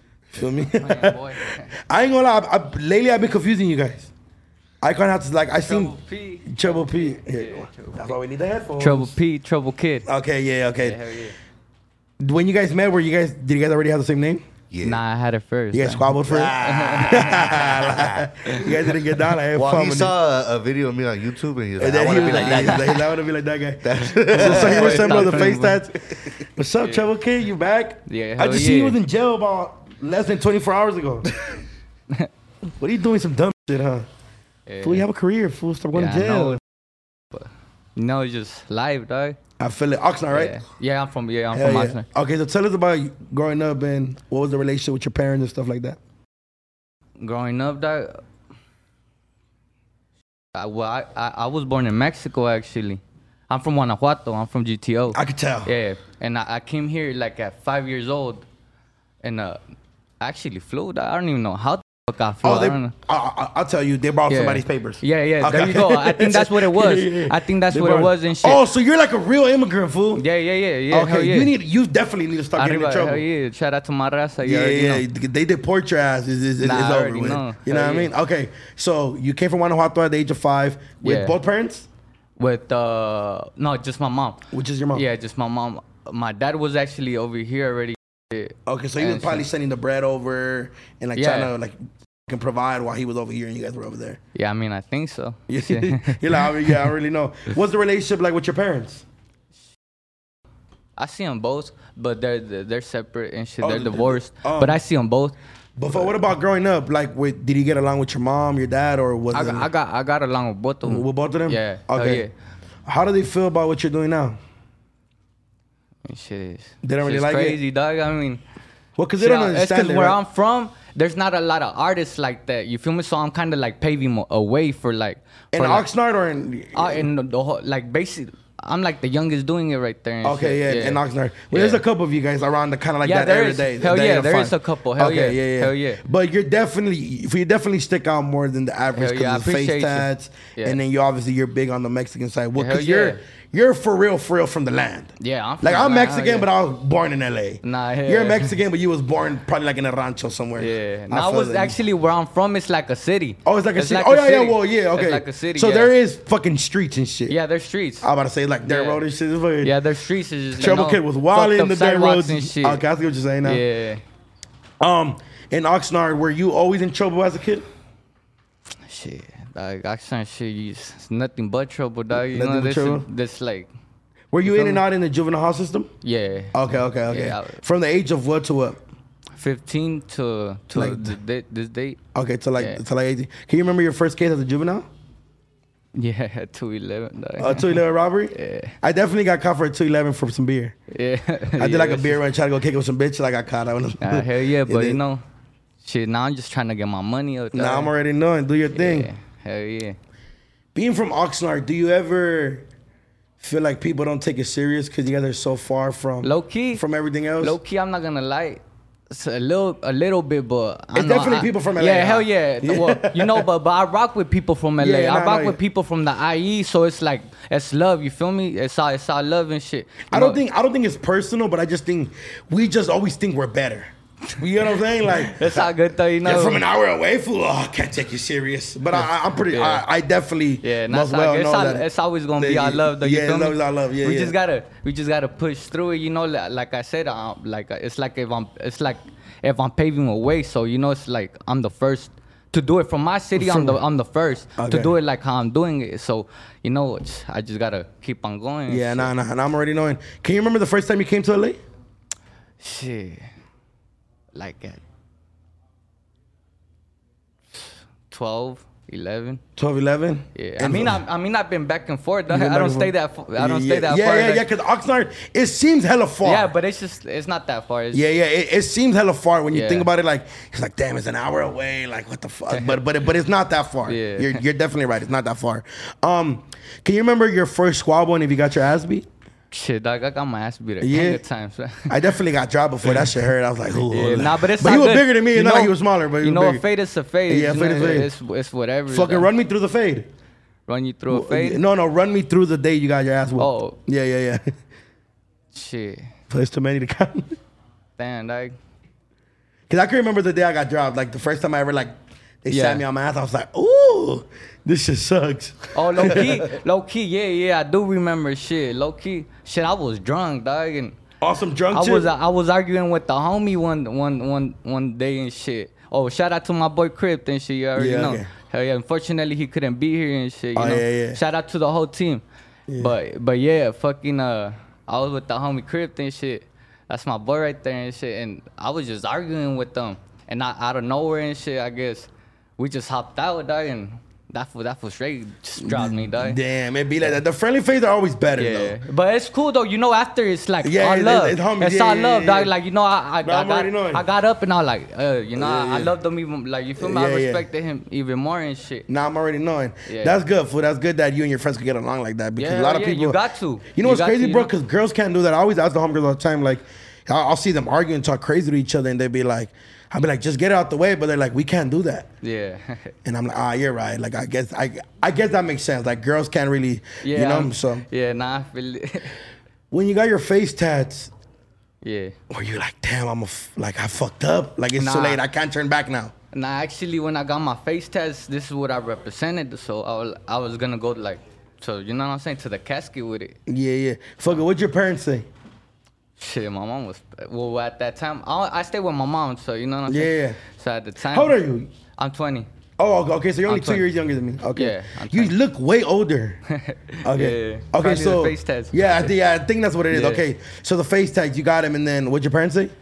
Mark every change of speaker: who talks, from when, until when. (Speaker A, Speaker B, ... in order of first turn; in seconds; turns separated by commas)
Speaker A: 0.3-4.1, Speaker B: 0.7-1.7, Speaker A: 4.8-9.2, Speaker B: 5.6-8.2, Speaker B: 8.8-10.1, Speaker A: 10.1-11.0, Speaker B: 10.8-11.3, Speaker A: 12.2-14.4, Speaker C: 14.7-15.0, Speaker B: 14.8-17.7, Speaker A: 15.7-20.1, Speaker C: 16.3-18.9, Speaker C: 19.5-23.0, Speaker A: 21.8-31.4, Speaker B: 22.0-23.0, Speaker C: 23.8-25.6, Speaker B: 24.3-25.8, Speaker B: 26.8-27.1, Speaker B: 28.1-29.0, Speaker A: 32.8-34.0, Speaker B: 34.7-35.0, Speaker A: 34.8-36.6, Speaker B: 35.9-36.6, Speaker B: 37.3-39.4, Speaker A: 39.6-40.6, Speaker B: 40.3-42.0, Speaker A: 41.5-46.0, Speaker B: 47.2-48.2, Speaker B: 50.5-58.4, Speaker A: 55.1-55.7, Speaker B: 59.2-59.6, Speaker B: 60.2-62.9, Speaker A: 62.4-70.2, Speaker B: 64.3-68.6, Speaker B: 70.1-71.5, Speaker A: 70.9-73.2, Speaker B: 72.5-75.0, Speaker A: 74.4-81.9, Speaker B: 76.6-78.1, Speaker B: 81.0-81.3, Speaker B: 82.4-89.4, Speaker A: 84.5-85.0, Speaker A: 88.7-94.2, Speaker B: 91.1-91.5, Speaker B: 94.3-96.9, Speaker A: 95.5-99.0, Speaker B: 101.0-105.4, Speaker A: 103.6-104.8, Speaker A: 105.8-109.7, Speaker B: 105.9-106.2, Speaker B: 109.3-112.3, Speaker A: 110.8-112.2, Speaker A: 112.8-114.4, Speaker B: 116.0-118.4, Speaker A: 116.8-117.6, Speaker A: 119.0-120.2, Speaker B: 119.2-125.8, Speaker A: 125.5-127.1, Speaker B: 126.7-131.0, Speaker A: 130.2-151.8, Speaker B: 131.5-131.8, Speaker B: 133.0-136.0, Speaker B: 138.9-140.8, Speaker B: 142.5-143.2, Speaker B: 145.2-146.5, Speaker B: 147.6-148.6, Speaker B: 150.6-155.9, Speaker A: 153.4-157.3, Speaker B: 157.3-158.1, Speaker A: 158.0-159.7, Speaker B: 158.6-159.0, Speaker B: 159.6-162.8, Speaker A: 160.6-163.6, Speaker B: 163.4-164.0, Speaker A: 164.8-167.6, Speaker B: 168.8-173.7, Speaker A: 172.3-173.1, Speaker A: 174.3-175.9, Speaker B: 174.4-174.8, Speaker B: 176.0-177.6, Speaker A: 176.5-178.8, Speaker B: 179.3-182.0, Speaker A: 180.7-181.1, Speaker A: 182.1-184.8, Speaker B: 182.6-182.8, Speaker B: 185.9-188.7, Speaker A: 187.4-190.8, Speaker B: 190.9-192.2, Speaker A: 191.6-195.0, Speaker B: 194.0-195.2, Speaker B: 195.8-197.9, Speaker A: 197.5-199.1, Speaker B: 198.7-200.0, Speaker A: 200.7-202.7, Speaker A: 203.4-207.6, Speaker B: 206.2-206.8, Speaker B: 207.4-220.4, Speaker A: 210.9-213.5, Speaker A: 214.8-215.6, Speaker A: 220.1-225.6, Speaker B: 225.0-226.6, Speaker A: 226.2-231.8, Speaker B: 228.9-229.8, Speaker B: 230.6-249.1, Speaker A: 232.4-234.3, Speaker A: 243.3-243.8, Speaker A: 244.6-244.9, Speaker A: 248.7-251.6, Speaker B: 252.6-253.3, Speaker B: 254.3-254.8, Speaker B: 257.5-259.4, Speaker A: 259.6-261.0, Speaker B: 260.3-264.5, Speaker A: 262.3-266.5, Speaker B: 266.2-268.1, Speaker A: 267.9-279.1, Speaker B: 269.5-269.9, Speaker B: 272.5-272.8, Speaker B: 273.9-274.4, Speaker B: 279.5-281.9, Speaker A: 280.8-281.2, Speaker A: 281.9-286.6, Speaker B: 283.8-289.3, Speaker A: 287.3-288.1, Speaker A: 288.9-290.1, Speaker B: 290.7-291.6, Speaker A: 291.1-294.5, Speaker B: 293.4-293.8, Speaker B: 295.5-296.1, Speaker A: 296.3-297.4, Speaker B: 298.0-298.6, Speaker A: 299.7-301.9, Speaker A: 302.4-306.5, Speaker B: 302.5-302.8, Speaker B: 305.7-310.9, Speaker A: 311.2-312.1, Speaker B: 311.7-322.2, Speaker A: 317.8-318.3, Speaker A: 320.6-321.2, Speaker A: 322.7-322.9, Speaker B: 322.8-336.4, Speaker A: 335.6-338.8, Speaker B: 338.3-348.9, Speaker A: 340.6-342.5, Speaker A: 343.2-344.0, Speaker A: 345.4-345.9, Speaker A: 346.8-347.4, Speaker A: 348.9-353.2, Speaker B: 349.9-350.2, Speaker B: 352.4-354.5, Speaker A: 353.7-362.1, Speaker B: 362.2-362.9, Speaker A: 363.0-367.9, Speaker B: 367.0-369.1, Speaker A: 369.7-371.1, Speaker B: 371.8-372.1, Speaker A: 372.3-376.1, Speaker B: 374.8-375.2, Speaker B: 376.3-383.4, Speaker A: 383.5-385.2, Speaker B: 386.2-391.4, Speaker A: 389.9-390.4, Speaker A: 391.1-391.7, Speaker B: 391.9-392.5, Speaker A: 392.8-396.4, Speaker B: 393.4-393.9, Speaker B: 394.5-395.4, Speaker B: 396.5-399.1, Speaker A: 397.0-402.7, Speaker B: 399.9-400.2